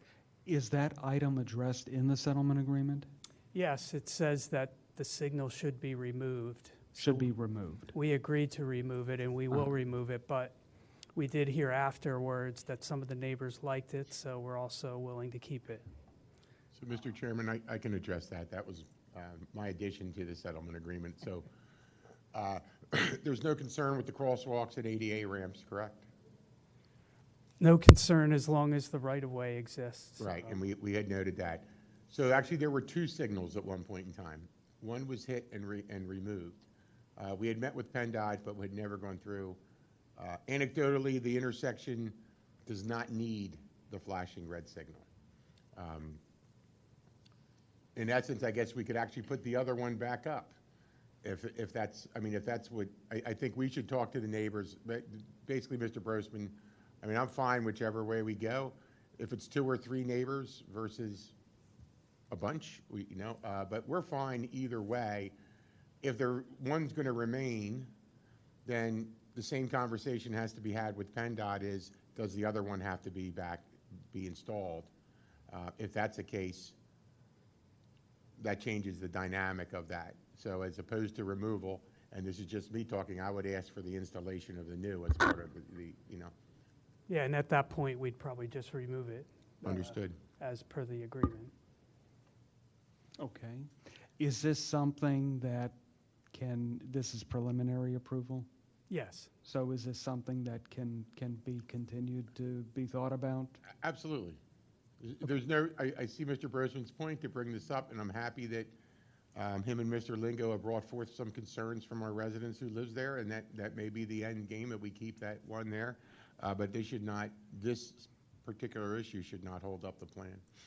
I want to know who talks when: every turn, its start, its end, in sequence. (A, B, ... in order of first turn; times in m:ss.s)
0:00.5-0:03.1 A
0:03.5-0:07.3 B
0:07.0-0:07.9 A
0:07.9-0:10.6 B
0:11.1-0:15.9 B
0:16.7-0:21.5 C
0:22.3-0:26.0 C
0:27.6-0:30.6 B
0:30.2-0:36.6 C
0:37.2-0:39.6 C
0:40.2-0:45.0 C
0:45.7-0:46.2 C
0:48.0-0:50.6 C
0:51.2-1:01.3 C
1:02.3-1:05.3 C
1:06.0-1:07.9 C
1:08.6-1:14.9 C
1:15.5-1:16.8 C
1:18.4-1:26.3 C
1:27.1-1:31.5 B
1:29.6-1:30.2 C
1:33.2-1:35.8 A
1:36.3-1:38.5 A
1:38.9-1:39.3 B
1:39.4-1:43.6 A
1:43.8-1:44.4 C
1:45.0-1:48.7 C
1:49.3-2:00.4 C